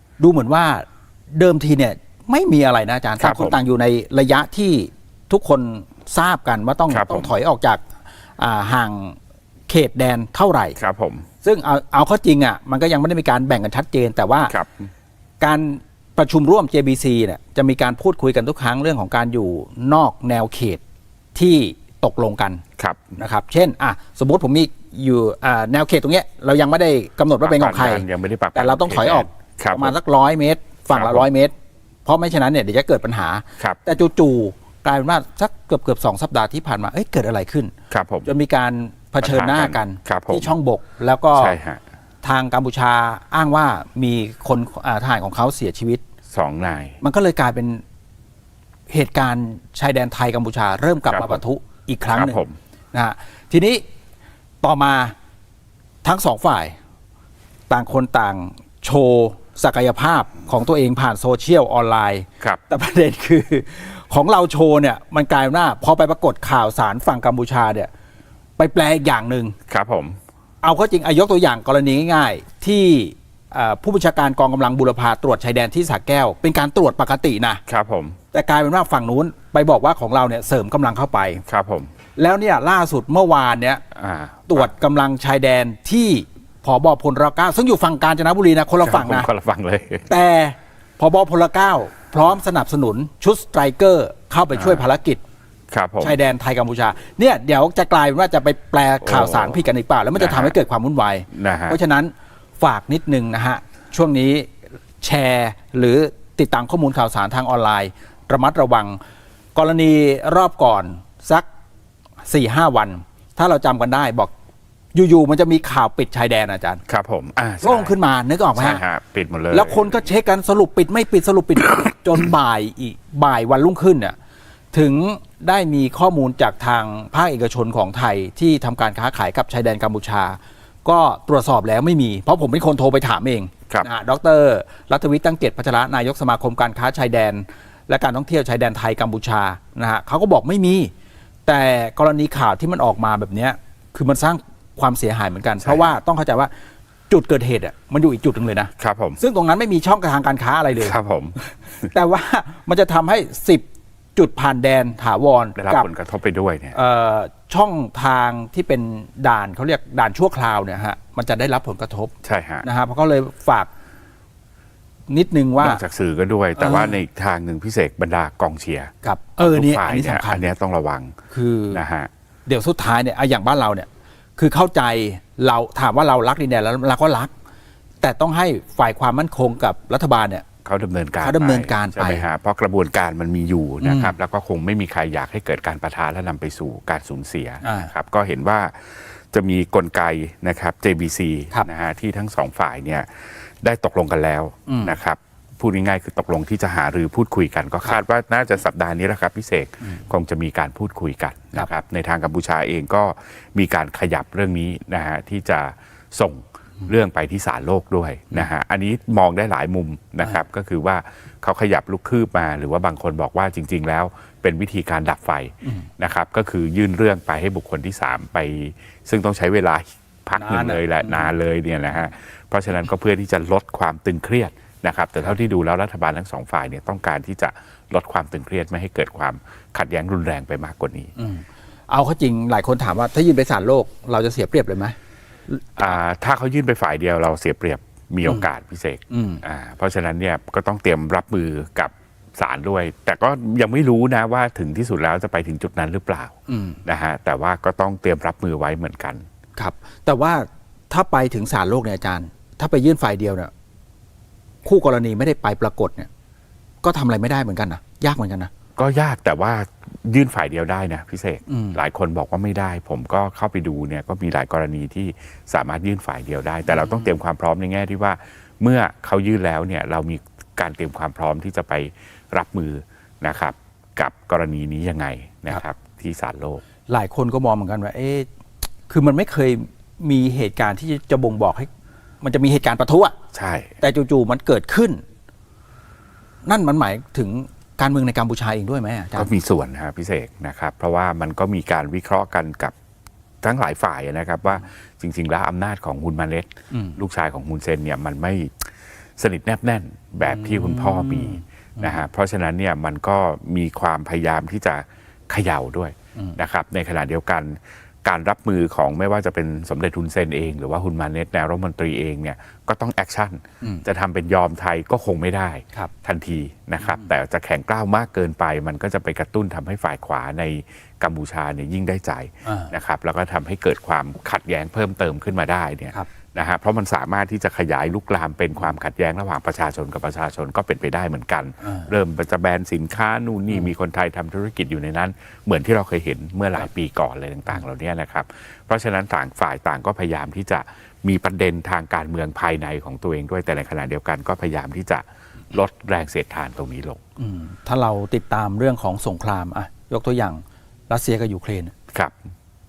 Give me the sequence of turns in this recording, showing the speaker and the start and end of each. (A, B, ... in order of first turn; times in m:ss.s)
0:00.2-0:07.8 A
0:03.2-0:03.6 B
0:06.9-0:07.3 B
0:08.4-0:09.2 A
0:09.7-0:10.8 A
0:10.8-0:11.3 B
0:11.4-0:14.5 A
0:14.5-0:14.9 B
0:15.4-0:20.8 A
0:21.3-0:22.6 A
0:23.2-0:31.5 A
0:27.4-0:30.0 B
0:30.9-0:31.3 B
0:32.0-0:37.7 A
0:37.9-0:38.3 B
0:38.2-0:41.6 A
0:39.2-0:40.5 B
0:41.3-0:41.8 B
0:42.2-0:46.0 A
0:46.3-0:47.0 B
0:47.0-0:47.8 A
0:48.9-0:52.4 A
0:51.1-0:51.4 B
0:52.1-0:52.6 B
0:52.9-0:53.8 A
0:54.6-0:55.1 A
0:56.0-0:56.8 A
0:57.7-1:07.9 A
1:08.6-1:09.6 A
1:09.7-1:10.2 B
1:10.6-1:17.6 A
1:17.7-1:18.2 B
1:18.3-1:21.4 A
1:21.4-1:21.9 B
1:22.2-1:23.8 A
1:23.9-1:24.7 B
1:24.5-1:29.3 A
1:28.8-1:30.1 B
1:30.1-1:35.2 A
1:34.6-1:34.8 B
1:35.7-1:36.2 B
1:36.0-1:49.0 A
1:39.0-1:39.6 B
1:40.2-1:40.6 B
1:41.3-1:41.8 B
1:49.5-1:51.4 A
1:52.2-1:54.3 A
1:54.9-1:56.8 A
1:56.9-1:57.9 B
1:57.6-1:58.8 A
1:58.5-2:00.0 B
1:59.5-2:04.2 A
2:04.7-2:20.9 A
2:21.5-2:26.5 A
2:27.1-2:30.9 A
2:28.8-2:29.2 B
2:30.8-2:31.4 B
2:31.9-2:33.6 A
2:34.2-2:35.9 A
2:35.6-2:36.8 B
2:36.7-2:43.7 A
2:42.2-2:42.7 B
2:45.1-2:45.8 A
2:45.6-2:51.2 B
2:46.6-2:47.0 A
2:49.0-2:50.5 A
2:51.3-2:51.8 A
2:51.7-2:52.1 B
2:52.5-2:57.3 A
2:58.0-3:00.4 A
3:00.6-3:51.1 B
3:01.2-3:02.2 A
3:03.8-3:04.2 A
3:07.6-3:07.9 A
3:14.7-3:15.0 A
3:40.4-3:41.3 A
3:51.2-3:55.0 A
3:55.8-4:09.2 B
3:59.1-3:59.4 A
4:06.5-4:06.8 A
4:09.6-4:13.5 A
4:14.6-4:16.1 A
4:16.8-4:18.5 A
4:18.8-4:36.6 B
4:21.5-4:21.8 A
4:26.7-4:27.1 A
4:36.9-4:38.3 A
4:38.9-4:41.7 A
4:42.2-4:43.2 A
4:43.3-4:43.7 B
4:43.8-4:45.0 A
4:46.5-4:49.3 A
4:49.1-4:52.7 B
4:53.4-5:47.0 B
4:56.7-4:57.0 A
5:00.2-5:02.0 A
5:16.8-5:17.1 A
5:22.4-5:22.7 A
5:31.6-5:31.9 A
5:47.2-5:51.7 A
5:51.9-5:52.2 B